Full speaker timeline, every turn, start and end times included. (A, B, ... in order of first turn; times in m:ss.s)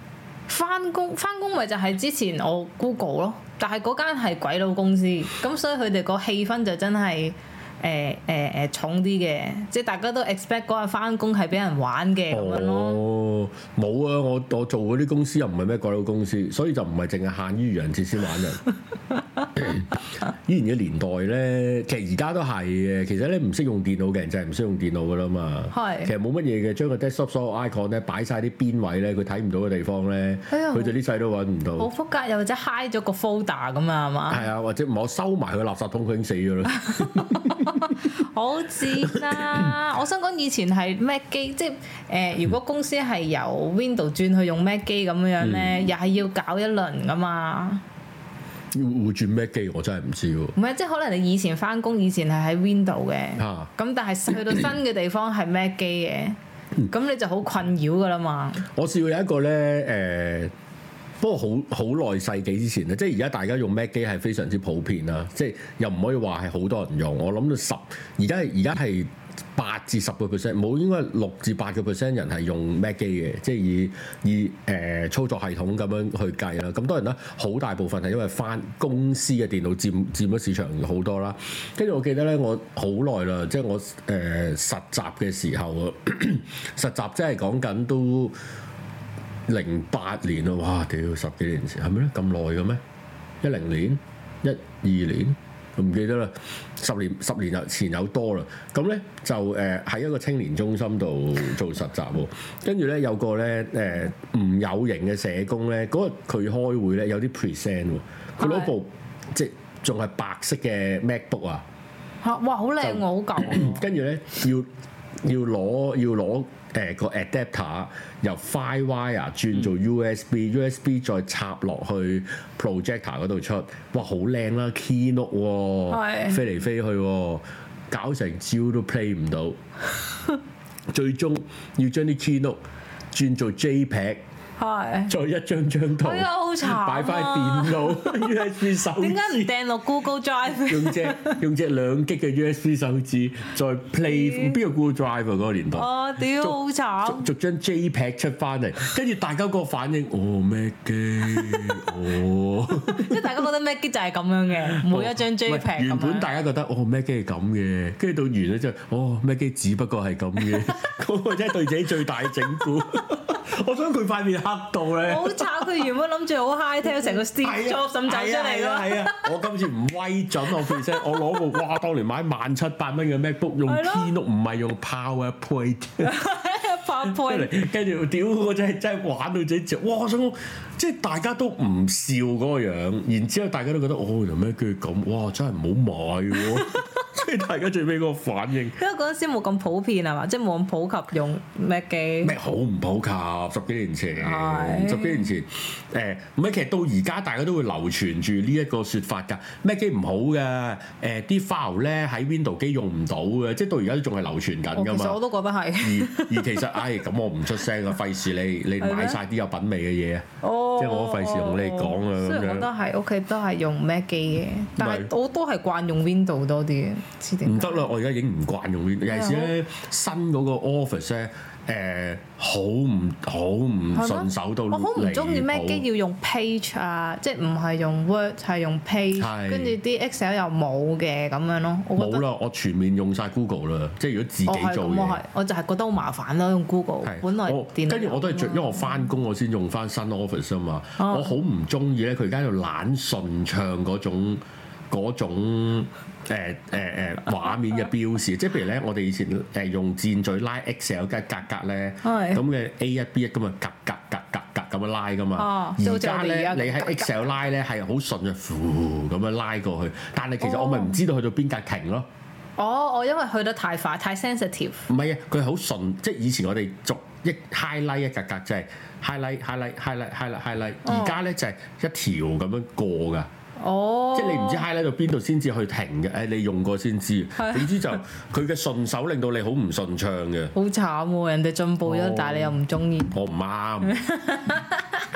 0:00.5-0:13.0 A
0:12.3-0:18.6 B
0:19.6-0:31.9 B
0:25.7-0:26.1 A
0:30.5-0:30.9 A
0:31.8-0:34.4 A
0:34.3-0:38.0 B
0:36.8-0:47.8 A
0:38.8-0:39.7 B
0:45.4-0:45.8 B
0:48.7-0:50.6 B
0:50.6-0:58.7 A
0:53.4-0:53.7 B
0:58.7-1:00.5 B
1:01.2-1:28.4 B
1:29.5-1:32.8 B
1:33.4-1:51.6 B
1:48.4-1:48.7 A
1:52.2-1:53.8 A
1:52.8-1:54.7 B
1:55.2-2:09.6 B
2:05.9-2:06.4 A
2:10.9-2:12.6 B
2:13.1-2:14.2 B
2:14.6-2:15.1 A
2:15.1-2:19.5 B
2:16.0-2:21.4 A
2:20.6-2:33.3 B
2:24.1-2:24.6 A
2:25.7-2:27.3 A
2:32.9-2:36.3 A
2:34.8-2:45.8 B
2:45.0-2:49.3 A
2:46.8-2:56.1 B
2:50.5-2:51.0 A
2:53.7-2:54.1 A
2:56.0-2:57.5 A
2:57.0-3:08.8 B
3:06.4-3:07.0 A
3:08.8-3:12.4 A
3:12.2-3:25.2 B
3:14.2-3:15.3 A
3:24.8-3:26.8 A
3:25.8-3:30.2 B
3:28.8-3:29.2 A
3:30.4-3:37.8 A
3:30.8-3:32.7 B
3:34.8-3:35.1 B
3:37.4-3:45.8 B
3:39.1-3:39.5 A
3:43.9-3:52.2 A
3:49.2-3:49.8 B
3:52.0-3:55.2 B
3:54.5-3:59.0 A
3:57.0-4:22.1 B
4:01.0-4:01.3 A
4:12.0-4:12.4 A
4:15.4-4:17.2 A
4:20.4-4:21.0 A
4:22.6-4:24.9 A
4:24.9-4:33.3 B
4:30.8-4:31.2 A
4:33.6-4:34.6 A
4:34.1-4:40.5 B
4:37.4-4:38.0 A
4:40.5-4:43.2 A
4:41.8-4:42.6 B
4:43.1-4:43.9 B
4:43.9-4:44.8 A